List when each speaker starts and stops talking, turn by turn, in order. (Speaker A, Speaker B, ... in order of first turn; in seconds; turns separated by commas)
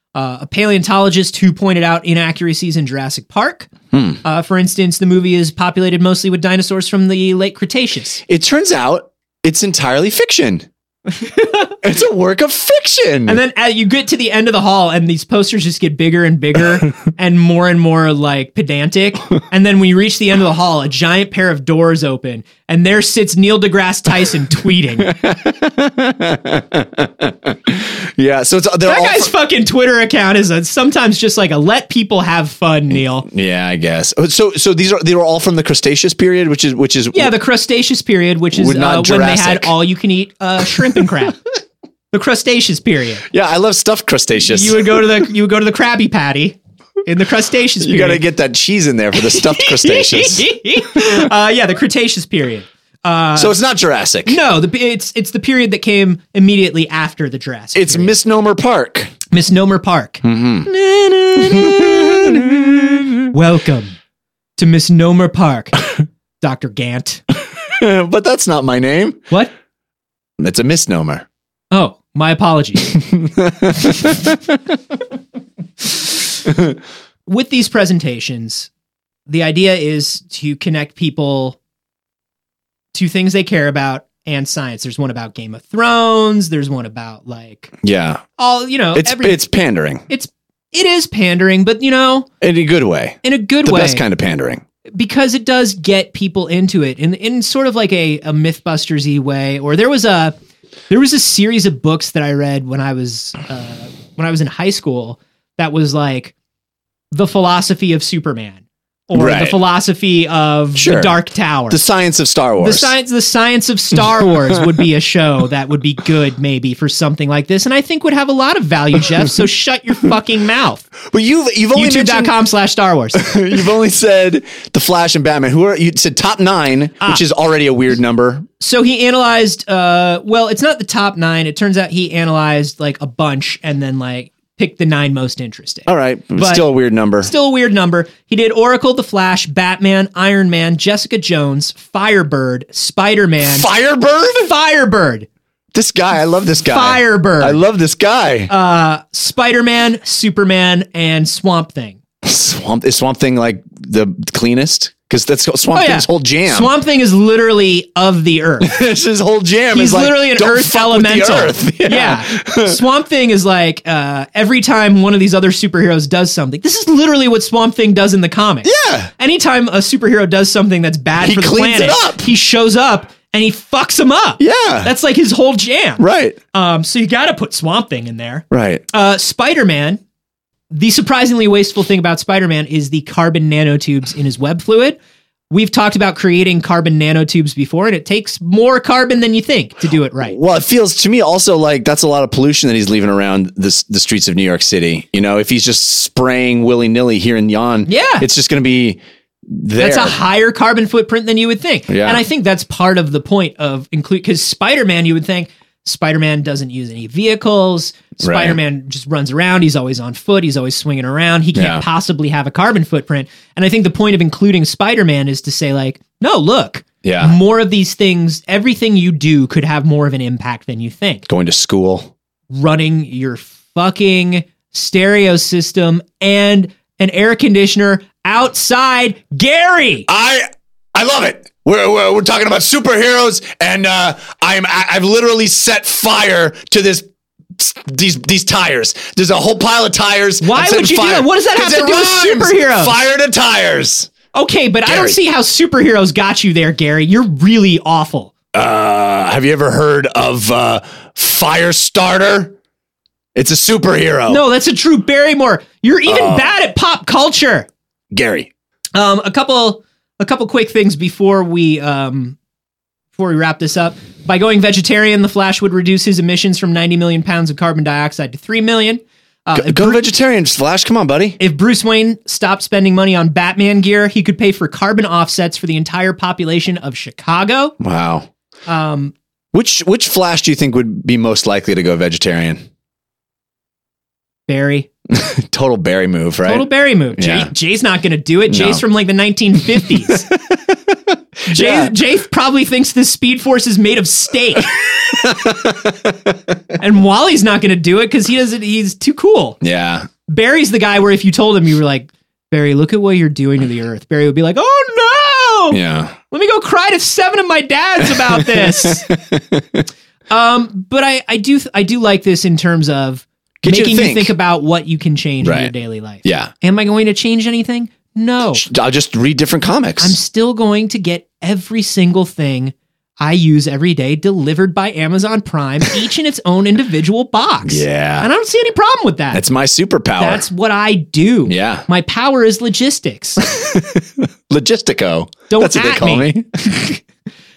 Speaker A: 0.1-3.7, Speaker B: 3.9-4.2, Speaker A: 4.2-8.2, Speaker B: 8.3-10.7, Speaker A: 11.3-11.6, Speaker B: 11.8-13.4, Speaker A: 13.3-25.1, Speaker B: 25.1-29.3, Speaker A: 28.9-33.3, Speaker B: 32.9-37.3, Speaker A: 37.1-41.4, Speaker B: 38.5-39.8, Speaker A: 42.1-43.2, Speaker B: 43.3-45.1, Speaker A: 44.4-48.2, Speaker B: 47.8-50.5, Speaker A: 49.2-53.6, Speaker B: 53.4-54.4, Speaker A: 54.3-58.1, Speaker B: 57.8-59.1, Speaker A: 59.3-64.0, Speaker B: 60.2-60.7, Speaker B: 61.4-63.2, Speaker A: 64.6-67.2, Speaker B: 67.6-69.2, Speaker B: 70.4-71.2, Speaker A: 71.7-73.0, Speaker B: 73.0-74.4, Speaker A: 77.3-78.7, Speaker A: 79.3-81.6, Speaker A: 82.9-87.7, Speaker B: 87.8-88.2, Speaker A: 88.4-89.4, Speaker B: 89.0-90.0, Speaker A: 90.1-92.3, Speaker B: 92.4-94.6, Speaker A: 93.2-94.0, Speaker A: 94.9-100.3, Speaker A: 100.9-106.3, Speaker A: 107.1-111.8, Speaker B: 109.2-109.6, Speaker B: 110.8-111.2, Speaker B: 111.7-112.9, Speaker A: 112.6-120.9, Speaker B: 121.0-122.3, Speaker A: 121.8-123.3, Speaker B: 123.2-128.5, Speaker A: 128.6-136.7, Speaker B: 135.9-137.3, Speaker A: 137.2-143.7, Speaker B: 143.5-144.5, Speaker A: 144.4-145.3, Speaker B: 145.7-148.5, Speaker A: 146.6-147.6, Speaker A: 148.5-152.0, Speaker B: 152.2-156.7, Speaker A: 155.7-158.8, Speaker B: 158.6-162.8, Speaker A: 159.7-180.0, Speaker B: 168.7-169.1, Speaker B: 171.2-172.2, Speaker B: 174.4-174.9, Speaker B: 176.0-176.4, Speaker B: 178.5-178.8, Speaker A: 180.7-185.0, Speaker A: 185.5-190.4, Speaker B: 190.2-200.2, Speaker A: 197.9-198.2, Speaker A: 199.8-221.3, Speaker B: 201.9-202.2, Speaker B: 208.2-208.6, Speaker B: 211.6-211.8, Speaker B: 217.0-217.4, Speaker B: 221.3-222.1, Speaker A: 222.5-230.1, Speaker B: 230.1-237.1, Speaker B: 237.6-244.1, Speaker A: 240.4-242.9, Speaker A: 244.3-248.3, Speaker B: 244.9-245.2, Speaker B: 248.5-252.6, Speaker B: 253.3-254.4, Speaker A: 254.3-257.7, Speaker B: 256.1-256.5, Speaker B: 258.1-258.5, Speaker A: 258.9-262.4, Speaker A: 263.2-270.0, Speaker B: 269.6-271.4, Speaker A: 271.4-277.8, Speaker B: 277.8-278.3, Speaker A: 278.7-279.1, Speaker B: 279.5-282.6, Speaker A: 284.5-284.9, Speaker B: 285.1-287.5, Speaker A: 286.5-290.3, Speaker B: 288.5-288.8, Speaker B: 289.8-291.9, Speaker A: 291.5-294.7, Speaker B: 294.7-296.4, Speaker A: 296.8-299.6, Speaker B: 299.6-300.1, Speaker A: 300.3-305.8, Speaker B: 305.7-306.1, Speaker A: 306.3-309.1, Speaker B: 308.1-309.8, Speaker A: 310.3-318.6, Speaker B: 313.6-314.3, Speaker B: 315.4-315.7, Speaker B: 316.2-316.5, Speaker B: 318.6-320.2, Speaker A: 320.0-329.4, Speaker B: 327.7-328.3, Speaker B: 329.3-330.4, Speaker A: 330.2-333.4, Speaker B: 331.4-331.9, Speaker B: 333.4-337.0, Speaker A: 335.5-336.3